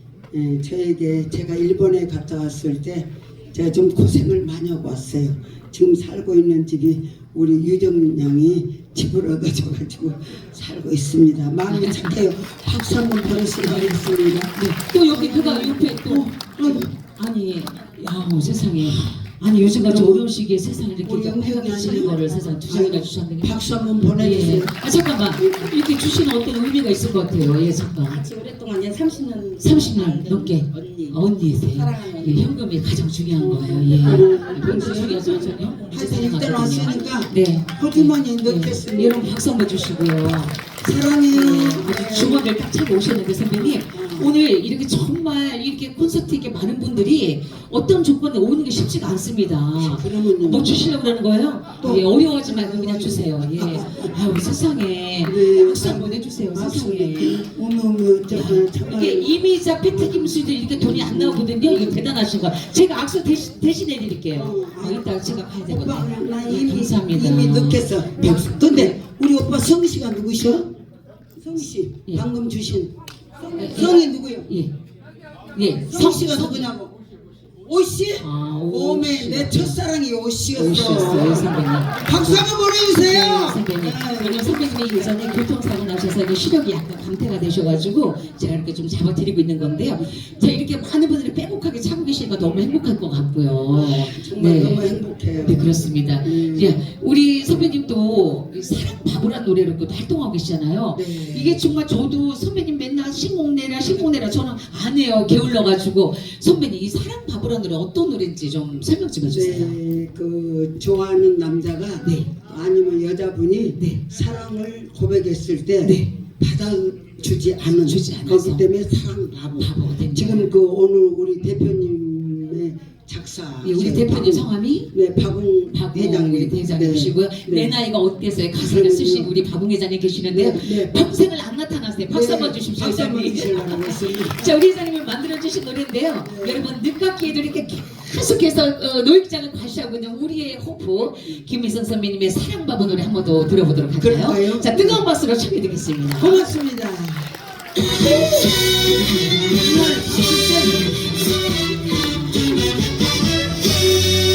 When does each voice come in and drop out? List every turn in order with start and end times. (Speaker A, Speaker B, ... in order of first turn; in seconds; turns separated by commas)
Speaker A: 0.3-16.9, Speaker B: 11.7-12.2, Speaker B: 13.6-14.0, Speaker B: 14.6-28.2, Speaker A: 19.6-20.3, Speaker A: 21.0-24.8, Speaker A: 25.4-25.7, Speaker C: 28.1-31.2, Speaker B: 29.6-40.6, Speaker C: 31.7-32.4, Speaker A: 33.4-39.4, Speaker A: 40.8-42.5, Speaker B: 41.3-57.4, Speaker A: 43.5-44.3, Speaker A: 49.8-50.8, Speaker A: 51.8-54.2, Speaker A: 55.2-62.0, Speaker B: 58.3-69.0, Speaker A: 64.3-70.7, Speaker A: 71.4-72.9, Speaker A: 73.4-74.5, Speaker B: 73.5-74.0, Speaker B: 75.5-76.7, Speaker A: 75.8-76.9, Speaker A: 77.7-84.6, Speaker B: 78.2-79.8, Speaker B: 80.5-109.8, Speaker A: 93.7-96.8, Speaker A: 101.0-101.6, Speaker A: 109.3-127.7, Speaker B: 112.0-112.3, Speaker B: 113.8-114.0, Speaker B: 115.8-116.1, Speaker B: 117.8-118.6, Speaker B: 119.6-120.5, Speaker B: 123.6-124.9, Speaker B: 125.7-146.5, Speaker A: 128.6-129.3, Speaker A: 130.2-130.9, Speaker A: 132.1-134.5, Speaker A: 136.2-136.7, Speaker A: 144.0-145.1, Speaker A: 146.2-147.3, Speaker A: 147.8-151.1